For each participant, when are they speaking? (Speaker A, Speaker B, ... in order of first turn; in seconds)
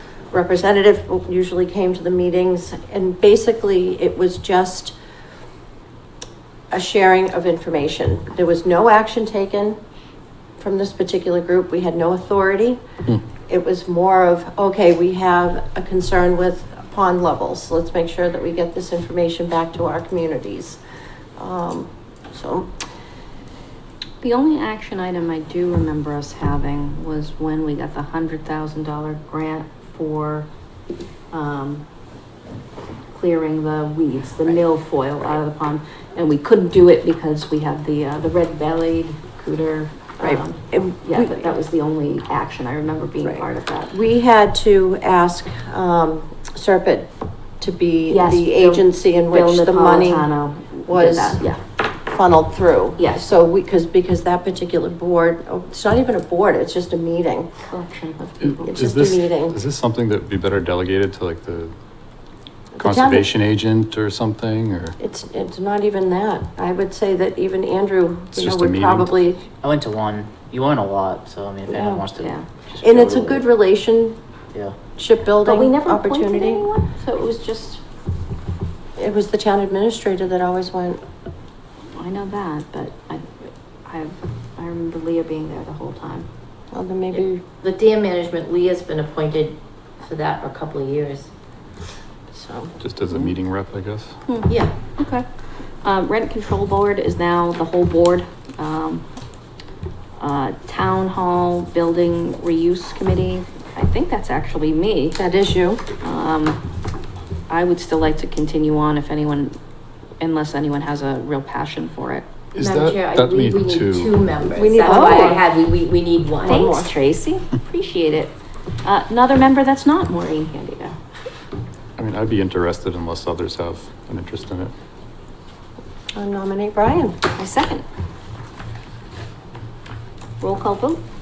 Speaker A: 0.3-5.0, 6.7-9.8, 10.6-12.8, 13.5-20.8, 21.4-22.7, 40.2-41.5, 43.2-50.3, 50.9-51.5, 52.1-57.5, 58.6-59.6, 62.8-63.3, 65.0-69.5, 71.7-72.0, 72.8-74.2, 75.0-76.7, 79.0-81.0, 86.7-87.4, 92.3-92.8, 105.2-105.8, 114.5-115.4, 116.4-116.9, 126.2-127.2
Speaker B: 24.2-30.5, 31.3-31.9, 33.1-43.9, 48.1-51.6, 53.0-53.3, 57.7-58.8, 72.2-72.5, 75.4-77.8, 82.0-86.3, 94.3-95.2, 95.8-99.0, 100.2-105.2, 106.0-106.6, 107.5-109.6, 110.2-112.3, 114.8-115.3, 116.4-121.0, 127.3-127.8, 130.4-131.0
Speaker C: 58.4-61.7, 62.8-65.0, 68.3-69.1, 92.8-94.1, 112.5-114.2, 122.0-124.7
Speaker D: 69.6-73.5
Speaker E: 87.1-91.3, 94.5-94.7, 112.6-116.7